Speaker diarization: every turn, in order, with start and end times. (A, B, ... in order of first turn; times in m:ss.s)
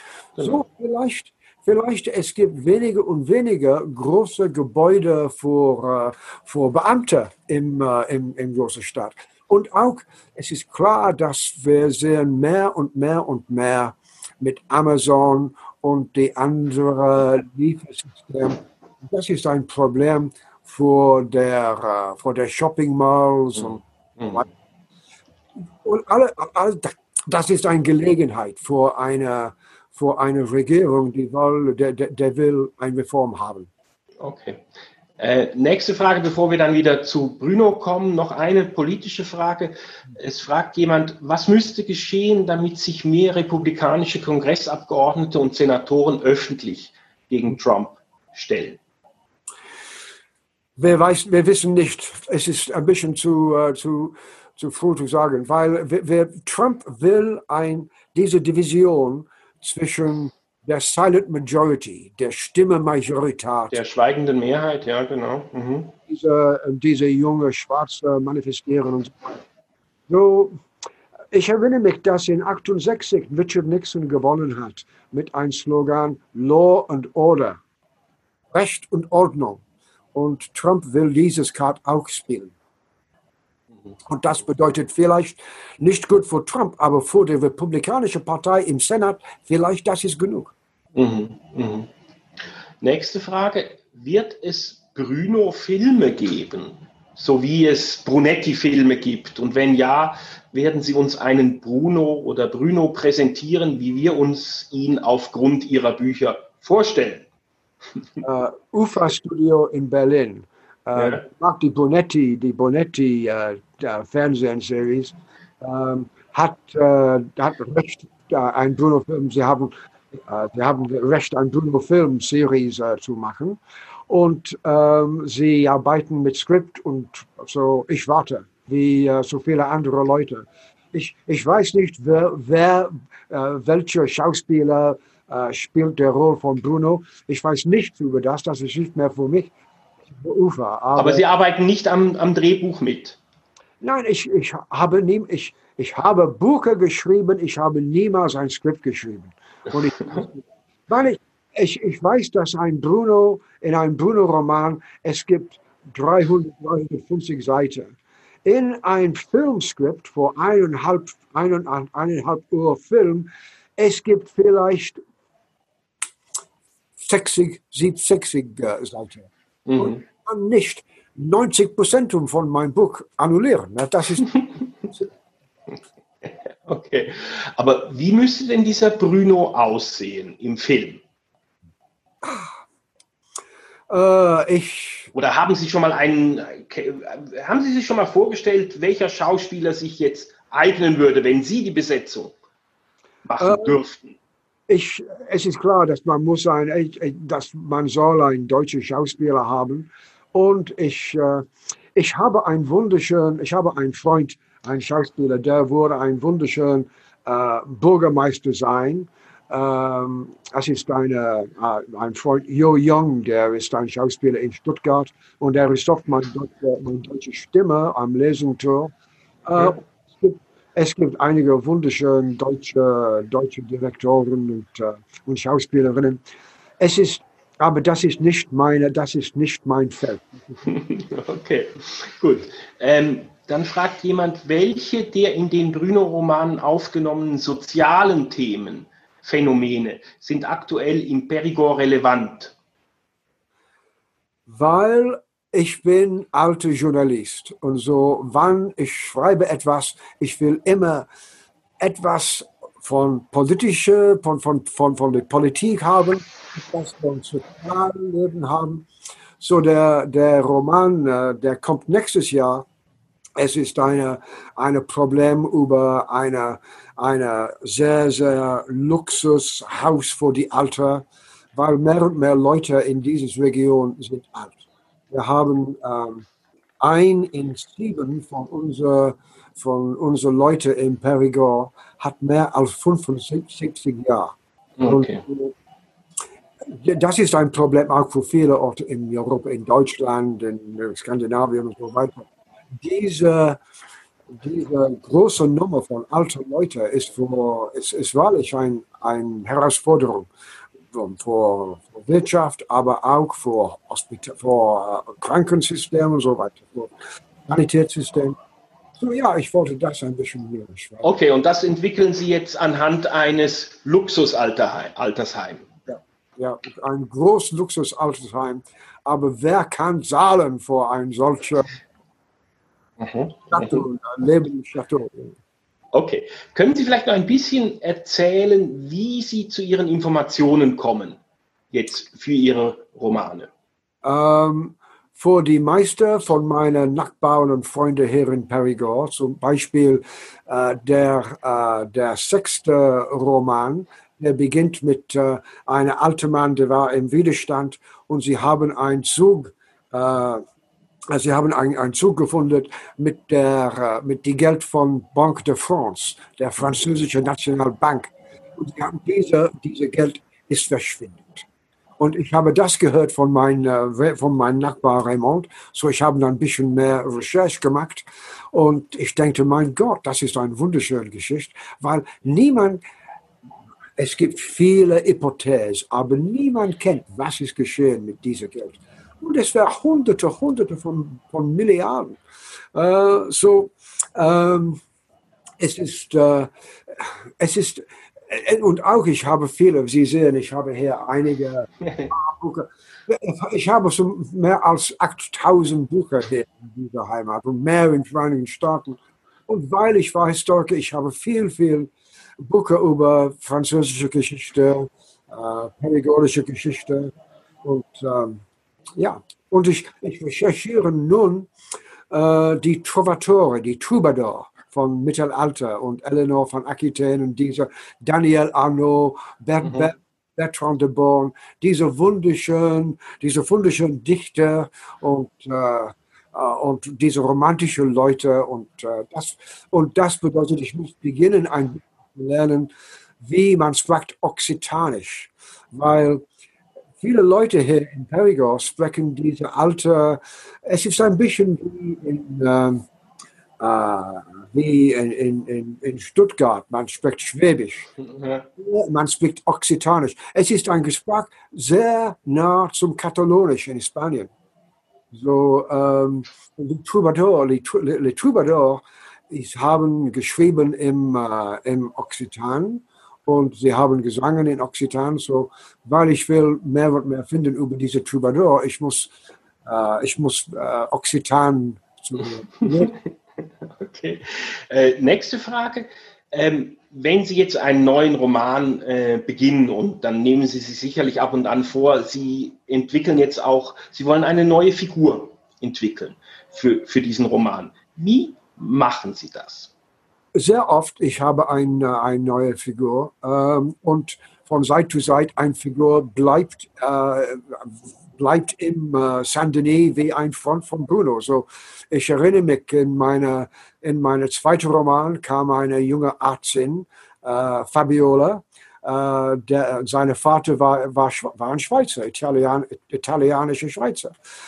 0:00.4-0:23.8 A
0:23.5-0:24.4 B
0:25.8-0:33.7 A
0:34.2-0:34.6 B
0:35.2-0:48.8 B
0:50.8-1:03.8 A
1:03.7-1:05.9 B
1:06.1-1:09.4 A
1:10.1-1:10.6 A
1:11.3-1:17.6 A
1:18.5-1:19.6 A
1:20.1-1:22.5 A
1:24.0-1:30.5 A
1:31.0-1:31.9 B
1:32.8-1:47.3 B
1:48.2-2:19.5 A
1:50.9-1:51.2 B
2:20.0-2:21.2 A
2:21.0-2:23.2 B
2:23.8-2:45.0 A
2:47.0-2:54.3 A
2:49.7-2:50.0 B
2:54.2-2:54.5 B
2:56.2-3:01.0 B
3:02.2-3:02.5 A
3:03.9-3:05.1 A
3:05.1-3:12.3 B
3:13.2-3:14.2 B
3:13.4-3:13.8 A
3:14.7-3:38.9 A
3:39.4-3:46.2 A
3:46.8-3:50.6 A
3:50.6-4:02.6 B
4:04.5-4:11.1 A
4:11.8-4:18.9 A
4:19.4-4:22.6 A
4:23.4-4:36.2 A
4:36.8-4:45.5 A
4:44.8-4:45.2 B
4:46.6-4:53.6 A
4:54.3-5:00.3 A
5:00.9-5:06.9 A
5:07.5-5:08.4 A
5:09.0-5:11.1 A
5:11.0-5:15.7 B
5:15.9-5:21.8 A
5:23.0-5:23.8 B
5:23.5-5:25.4 A
5:25.9-5:31.2 B
5:31.7-5:33.5 B
5:34.0-5:50.4 A
5:51.1-6:01.4 A
6:02.0-6:12.8 A
6:14.0-6:22.2 A
6:22.7-6:24.8 A
6:25.6-6:41.9 A
6:31.8-6:32.1 B
6:42.4-6:47.1 A
6:47.6-6:48.4 A
6:49.0-6:51.5 A
6:52.1-7:12.7 A
6:59.6-6:59.9 B
7:13.2-7:16.2 A
7:17.0-7:22.8 A
7:23.6-7:27.9 A
7:28.0-7:28.4 B
7:28.6-7:34.3 A
7:35.1-7:49.1 A
7:49.6-7:52.9 A
7:52.6-7:53.1 B
7:53.6-8:09.7 B
8:10.3-8:34.1 A